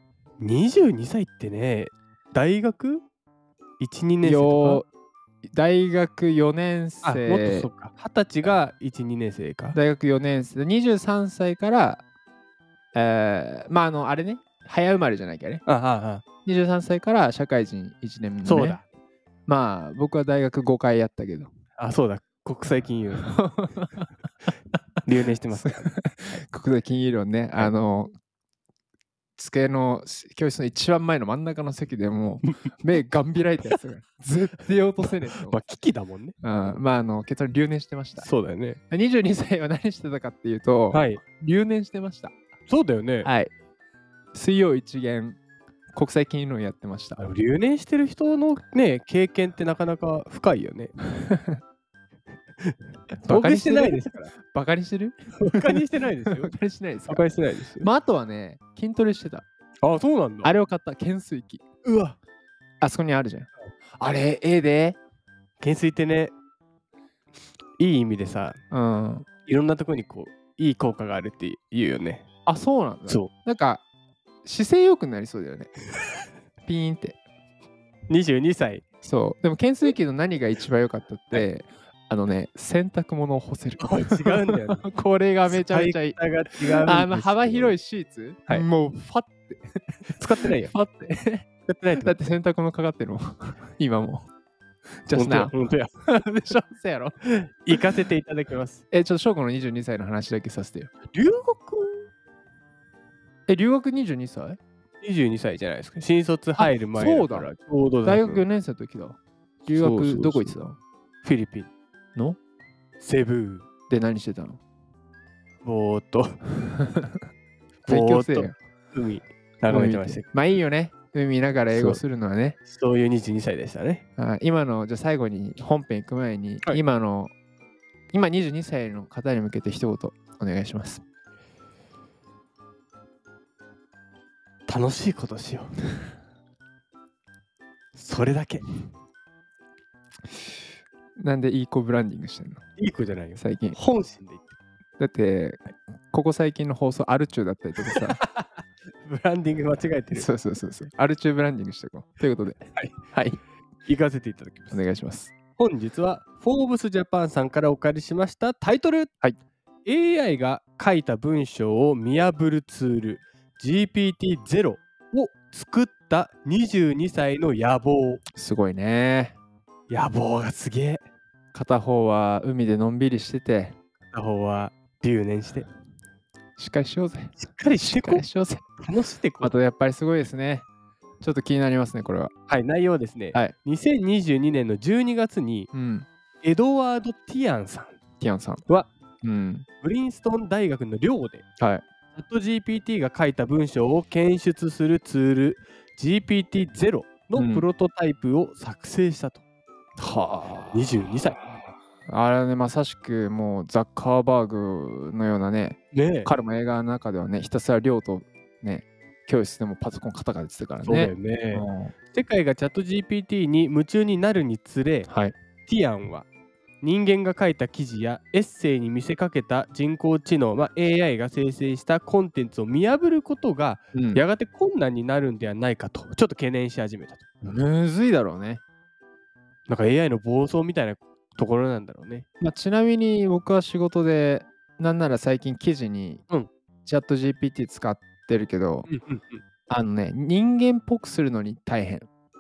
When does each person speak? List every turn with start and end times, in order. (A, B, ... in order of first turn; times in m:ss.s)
0:00.4-0:03.0 A
0:03.8-0:04.8 A
0:04.2-0:04.9 B
0:05.5-0:07.7 B
0:07.0-0:09.8 A
0:09.7-0:12.0 B
0:12.9-0:15.6 B
0:15.7-0:16.2 A
0:16.4-0:18.8 B
0:18.4-0:18.8 A
0:19.5-0:21.5 B
0:21.8-0:23.4 A
0:23.2-0:24.1 B
0:25.0-0:26.4 A
0:25.6-0:28.1 B
0:29.4-0:35.6 B
0:35.3-0:36.8 A
0:36.4-0:38.3 B
0:38.2-0:38.8 A
0:38.9-0:42.3 B
0:40.9-0:41.2 A
0:42.7-0:43.3 A
0:43.2-0:43.5 B
0:44.3-0:45.4 B
0:45.9-0:47.2 B
0:47.2-0:50.9 A
0:51.2-0:51.6 B
0:53.2-0:57.3 B
0:53.3-0:54.3 A
0:55.4-0:56.6 A
0:57.1-0:57.9 A
0:57.8-0:59.5 B
0:59.8-1:00.5 A
1:00.4-1:01.6 B
1:01.8-1:02.2 A
1:02.8-1:05.0 B
1:05.6-1:06.3 A
1:07.8-1:08.6 A
1:08.7-1:09.3 B
1:09.5-1:12.2 A
1:12.5-1:13.8 B
1:14.4-1:15.8 B
1:16.6-1:17.2 B
1:18.1-1:18.9 A
1:19.0-1:31.5 B
1:23.8-1:24.8 A
1:25.5-1:27.8 A
1:30.2-1:30.7 A
1:31.7-1:32.2 A
1:32.0-1:34.2 B
1:35.1-1:35.5 B
1:35.1-1:35.9 A
1:36.1-1:37.1 B
1:37.3-1:38.8 A
1:38.9-1:40.9 B
1:41.1-1:42.1 A
1:43.5-1:44.6 B
1:45.0-1:48.5 A
1:46.6-1:47.5 B
1:48.0-1:50.8 B
1:49.7-1:50.6 A
1:51.2-1:51.7 A
1:53.0-1:53.7 A
1:53.9-1:54.6 B
1:55.6-1:56.4 A
1:56.8-1:57.2 B
1:57.8-2:00.2 A
1:57.9-1:58.6 B
1:59.7-2:02.6 B
2:01.7-2:02.0 A
2:02.7-2:04.0 A
2:04.2-2:07.3 B
2:08.1-2:11.0 B
2:14.7-2:15.7 A
2:18.0-2:18.7 A
2:21.2-2:22.6 B
2:22.8-2:24.6 A
2:23.4-2:23.8 B
2:25.0-2:28.2 B
2:27.8-2:28.5 A
2:29.0-2:30.3 A
2:30.1-2:33.4 B
2:33.8-2:34.9 A
2:34.7-2:35.3 B
2:35.6-2:39.1 A
2:39.8-2:48.2 A
2:48.4-2:49.4 B
2:49.9-2:51.0 A
2:51.5-2:53.8 B
2:54.1-2:55.7 A
2:56.6-2:58.6 B
2:57.4-2:58.2 A
2:58.8-2:59.6 A
2:59.4-3:00.7 B
3:01.2-3:02.3 B
3:02.5-3:05.7 A
3:05.7-3:06.1 B
3:06.4-3:08.0 A
3:08.2-3:08.6 B
3:09.2-3:09.7 B
3:09.8-3:11.4 A
3:12.2-3:19.4 A
3:17.4-3:17.7 B
3:20.0-3:20.8 B
3:20.7-3:21.4 A
3:22.1-3:31.9 B
3:25.9-3:26.3 A
3:30.8-3:35.1 A
3:35.1-3:35.4 B
3:35.7-3:36.3 A
3:36.8-3:47.2 A
3:43.9-3:44.2 B
3:47.4-3:48.6 B
3:49.7-3:52.3 A
3:52.4-3:56.2 B
3:56.8-3:58.9 B
3:58.9-3:59.4 A
3:59.7-4:02.1 B